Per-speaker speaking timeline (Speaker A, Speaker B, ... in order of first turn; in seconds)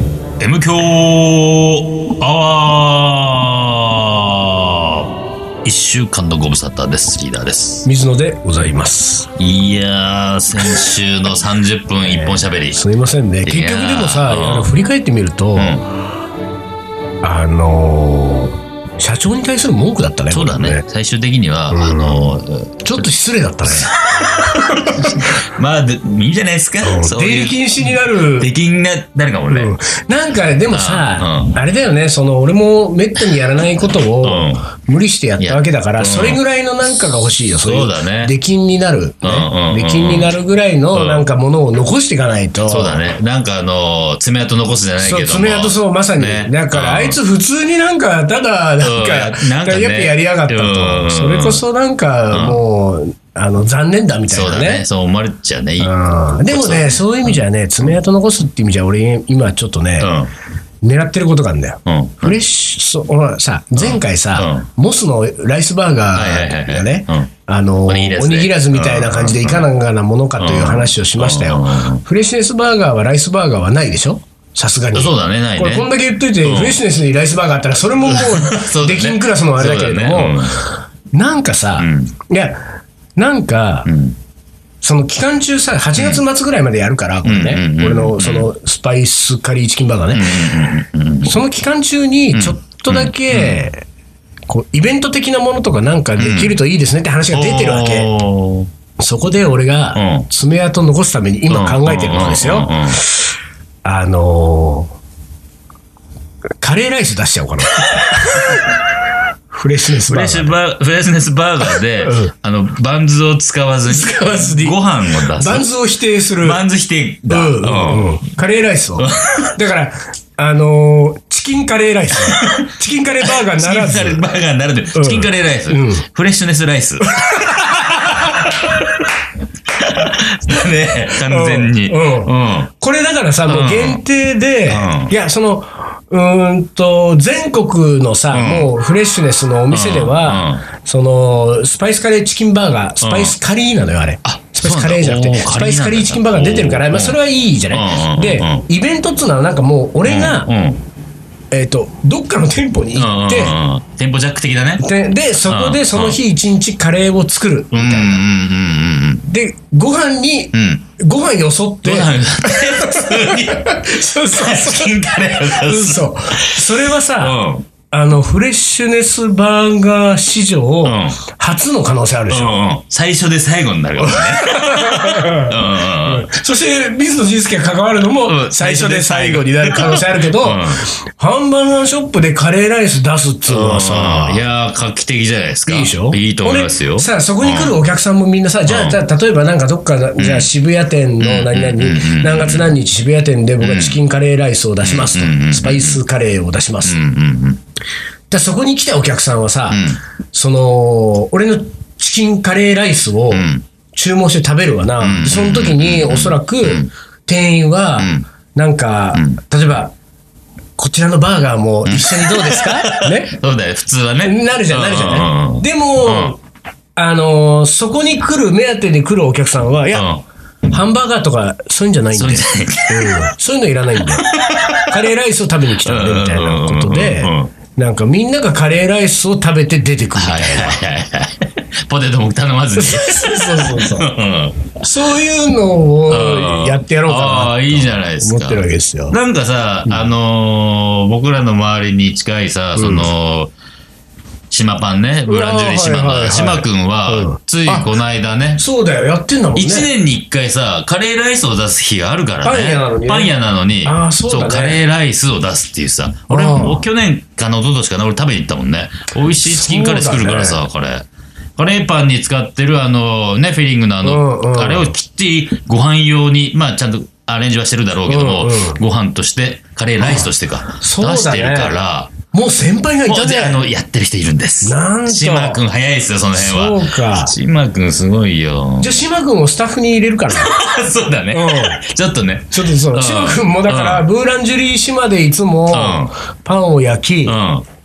Speaker A: 0.4-5.1, 5.6-7.9, 9.4-12.8, 13.4-14.7, 15.6-15.8, 20.3-23.1, 23.6-29.7, 30.7-31.6, 34.2-34.7, 35.4-36.4, 37.6-38.3, 39.2-40.3, 40.9-41.3, 42.7-47.2, 48.8-51.6, 52.3-52.6, 54.3-55.9, 56.5-57.4, 60.0-60.3, 61.9-62.4, 63.8-64.7, 66.1-67.3, 67.9-69.7, 70.4-72.0, 74.9-75.9, 76.4-76.8, 78.1-80.6, 81.8-82.1, 83.9-84.2, 86.0-86.2, 87.2-88.5, 90.1-91.4, 92.3-93.6, 96.2-96.6, 97.3-98.7, 100.0-100.3, 101.5-103.0, 110.1-115.7, 116.4-118.2, 119.0-119.5, 122.2-122.7, 123.2-129.1, 129.7-132.7, 133.5-134.0, 134.7-135.1, 138.3-138.7, 139.7-140.6, 143.0-143.3, 144.2-147.2, 147.7-148.6, 150.1-150.8, 152.9-154.8, 155.5-156.2, 157.7-159.2, 160.5-160.9, 161.8-167.7, 170.8-171.2, 172.3-176.3, 178.2-180.8, 183.5-187.8, 188.7-189.0, 190.2-190.5, 191.2-192.8, 193.6-194.0, 194.8-196.0, 196.8-197.6, 199.7-200.0, 203.3-203.7, 205.0-206.9, 208.0-208.3, 211.8-216.3, 219.9-220.2, 222.2-223.3, 224.1-225.0, 225.8-227.5, 230.2-234.8, 236.1-243.5, 244.5-248.6, 249.6-272.1, 273.1-279.0, 280.3-284.1, 285.7-286.1, 287.3-287.6
Speaker B: 7.8-9.3, 12.1-15.9, 17.2-20.8, 21.7-25.3, 26.8-28.5, 29.5-43.1, 45.0-54.9, 55.8-60.1, 60.8-82.6, 83.2-83.9, 84.8-90.5, 91.2-93.9, 94.5-98.1, 99.0-103.3, 103.8-105.0, 106.6-108.8, 109.5-110.6, 112.0-112.3, 113.9-114.8, 115.3-116.6, 117.3-124.3, 125.0-126.1, 127.0-128.7, 131.3-150.5, 151.5-153.6, 154.8-158.2, 159.2-172.6, 174.0-184.4, 185.7-197.0, 198.3-209.9, 210.8-213.3, 214.2-216.4, 217.0-220.1, 220.7-224.3, 224.9-230.8, 232.8-234.1, 234.8-239.2, 242.8-243.1, 245.3-247.9, 248.6-249.9, 252.4-254.8, 256.3-256.8, 259.4-260.6, 264.0-264.9, 268.1-268.8, 270.0-271.7, 272.3-273.6, 274.6-275.6, 276.4-277.3, 278.8-280.5, 281.3-281.8, 282.5-287.4